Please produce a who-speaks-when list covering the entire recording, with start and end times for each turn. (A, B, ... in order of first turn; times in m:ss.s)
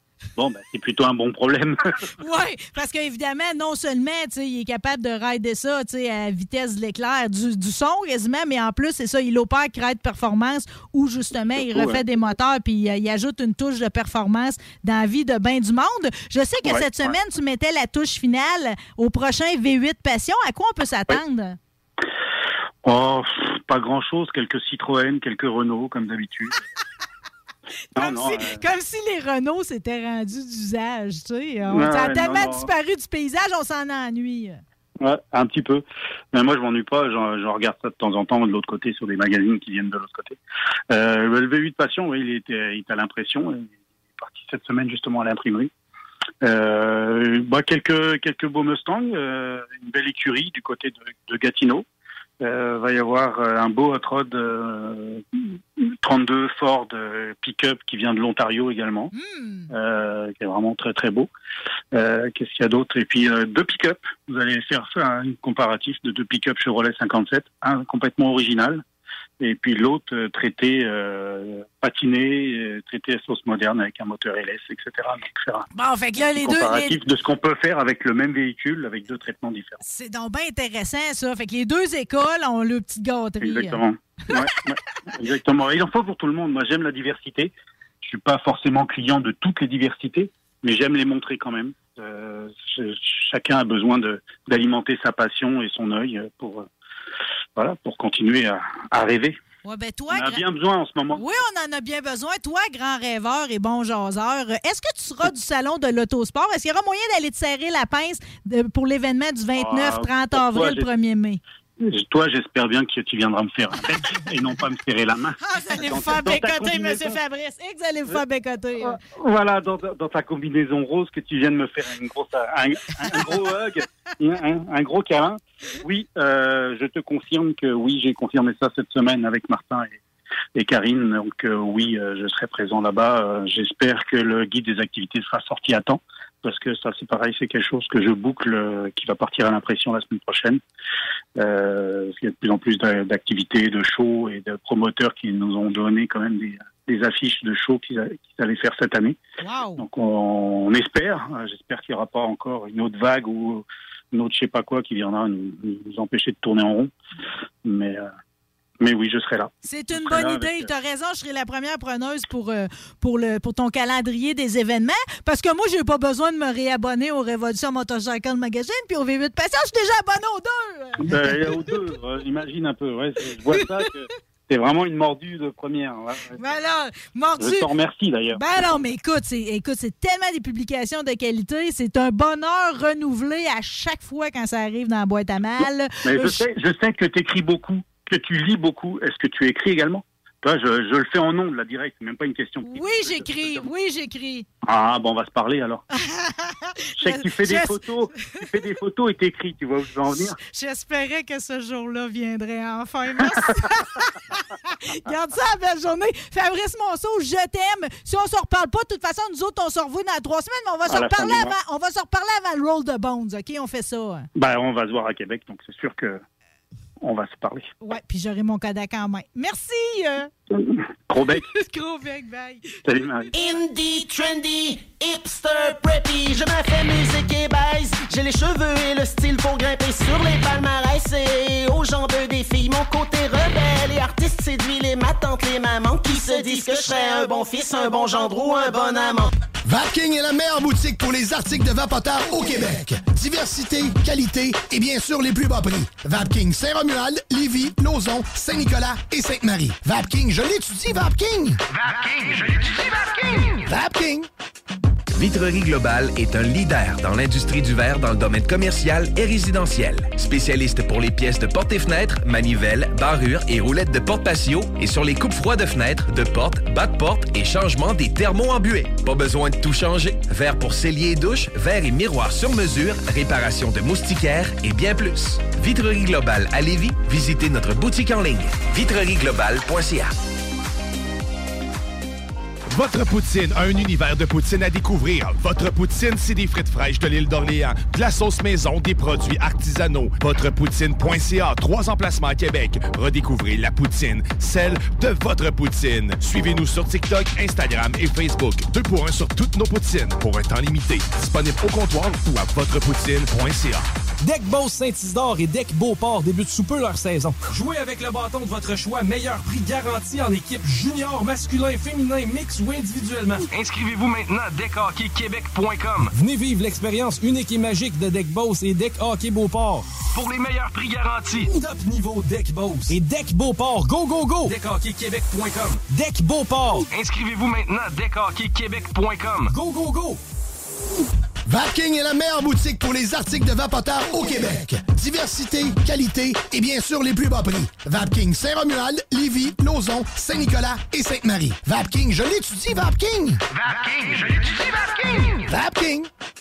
0:00.4-0:02.1 A
0:02.2-0:21.6 B
0:11.6-0:12.0 A
0:16.6-0:17.1 A
0:22.8-0:26.6 A
0:28.0-0:34.6 B
0:28.0-0:28.6 A
0:31.7-0:32.7 A
0:35.0-0:40.4 A
0:40.9-0:45.7 A
0:46.4-0:51.8 A
0:52.4-0:55.2 A
0:56.0-0:59.1 A
0:59.1-0:59.7 B
0:59.7-1:01.3 A
1:01.9-1:08.8 A
1:09.4-1:15.6 A
1:15.7-1:17.0 B
1:16.4-1:19.8 A
1:19.8-1:23.8 B
1:23.4-1:36.7 A
1:37.6-1:39.4 A
1:39.6-1:40.4 B
1:40.1-1:41.2 A
1:41.2-1:51.4 B
1:49.6-1:50.9 A
1:51.8-1:57.2 A
1:55.4-1:59.0 B
1:58.8-2:10.0 A
2:10.6-2:20.6 A
2:21.4-2:29.2 A
2:29.4-2:29.8 B
2:29.8-2:36.9 A
2:37.6-2:38.1 A
2:38.8-2:40.7 A
2:39.6-2:51.8 B
2:51.0-2:56.5 A
2:53.5-2:53.9 B
2:56.4-2:57.7 B
2:57.4-2:58.4 A
2:58.3-3:06.4 B
3:06.0-3:13.7 A
3:12.7-3:14.5 B
3:14.7-3:15.8 A
3:15.9-3:18.4 B
3:17.0-3:20.4 A
3:20.4-3:34.3 B
3:23.4-3:23.6 A
3:30.9-3:31.5 A
3:34.4-3:36.2 A
3:37.0-3:37.7 A
3:37.8-3:40.3 B
3:40.5-3:41.4 A
3:41.4-3:42.7 B
3:42.8-3:43.3 A
3:43.4-3:59.3 C
3:59.6-4:11.6 D
4:13.6-4:14.3 D
4:15.1-4:40.1 E
4:42.7-5:03.8 F
5:04.2-5:06.4 G
5:08.7-5:10.0 G
5:10.9-5:11.2 G
5:13.5-5:29.6 G
5:31.5-5:43.4 D
5:45.4-5:46.1 D